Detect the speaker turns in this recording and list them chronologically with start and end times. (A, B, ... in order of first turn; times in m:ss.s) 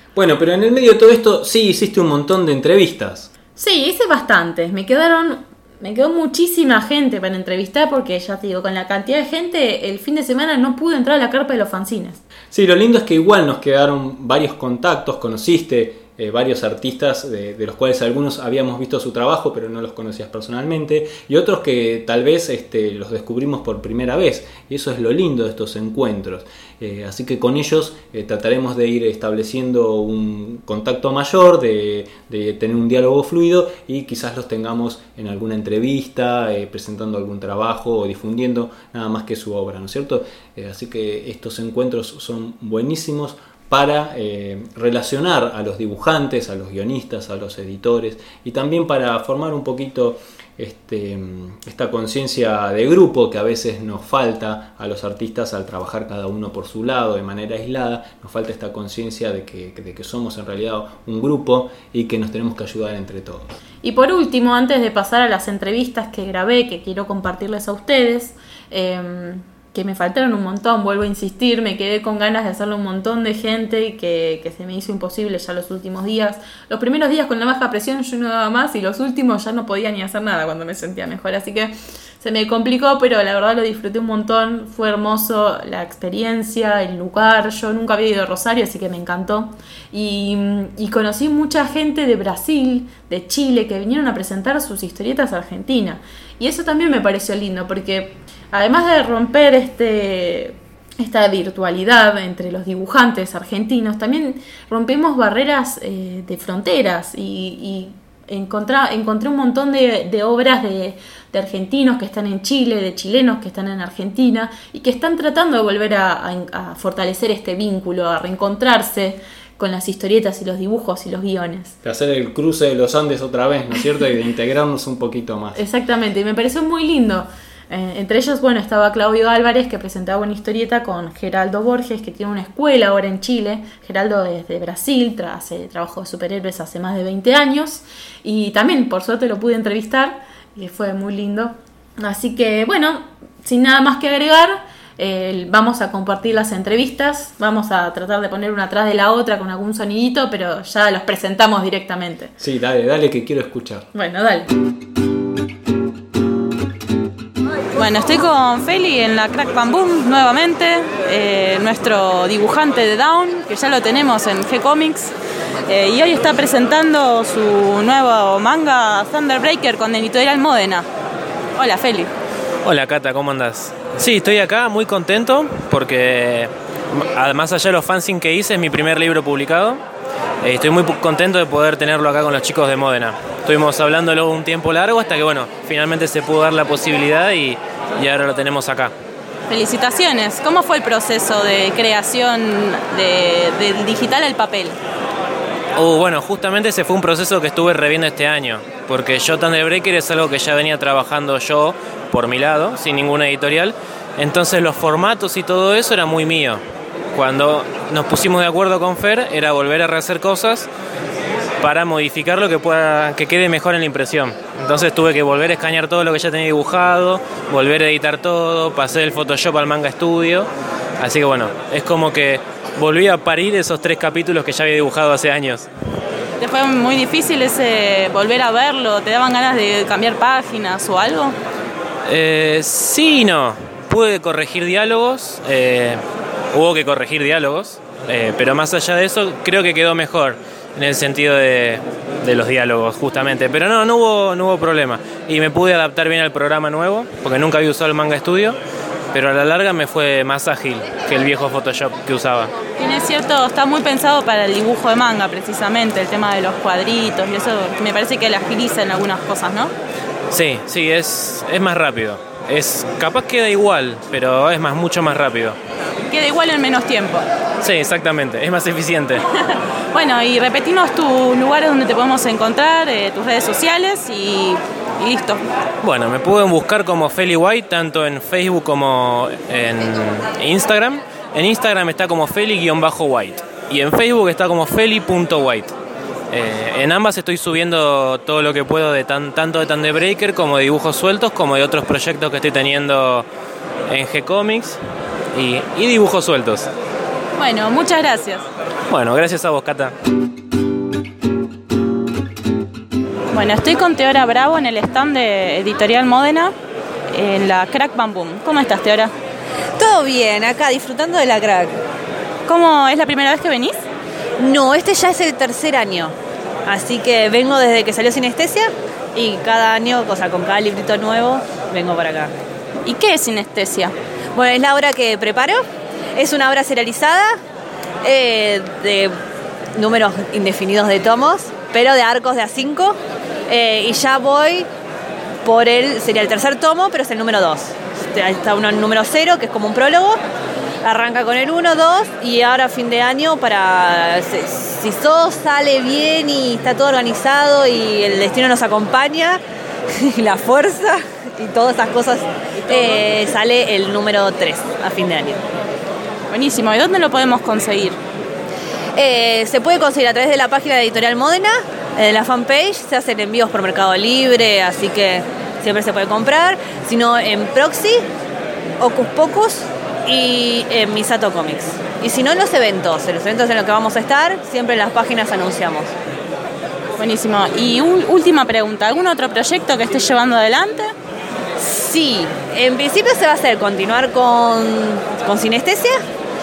0:00.1-0:03.3 A
0:03.6-0:12.2 B
0:12.5-1:03.5 A
1:03.8-2:01.8 B
2:01.8-2:05.6 A
2:05.5-2:32.3 B
2:32.4-2:33.8 A
2:33.9-2:34.5 B
2:37.7-2:45.1 C
2:45.7-2:50.9 C
2:51.6-2:52.1 C
2:52.6-2:59.8 D
3:00.4-3:08.9 D
3:09.5-3:14.8 C
3:15.8-3:26.6 D
3:27.1-3:30.7 D
3:31.6-3:40.5 D
3:41.0-3:45.7 D
3:46.4-3:51.4 C
3:52.0-3:56.0 D
3:56.5-4:08.6 D
4:09.1-4:12.5 D
4:12.8-4:19.7 C
4:20.3-4:25.6 D
4:26.1-4:27.3 C
4:27.6-4:29.2 D
4:29.9-4:35.4 C
4:35.8-4:45.7 D
4:46.3-4:53.2 D
4:53.9-4:54.8 D
4:55.3-4:56.7 D
4:57.4-4:58.5 C
4:58.9-4:59.9 D
5:03.3-5:06.5 C
5:07.1-5:09.1 C
5:09.8-5:11.8 E
5:12.5-5:13.8 C
5:14.4-5:16.1 E
5:16.7-5:22.3 E
5:22.8-5:23.9 C
5:24.3-5:25.6 E
5:26.2-5:27.4 E
5:28.0-5:29.1 E
5:29.8-5:33.0 E
5:33.5-5:34.7 E
5:35.4-5:40.2 E
5:40.8-5:49.4 E
5:49.9-5:55.4 E
5:52.7-5:53.0 C
5:56.3-5:58.0 C
5:59.0-6:08.0 E
6:08.8-6:15.9 E
6:17.0-6:20.9 C
6:21.6-6:26.0 E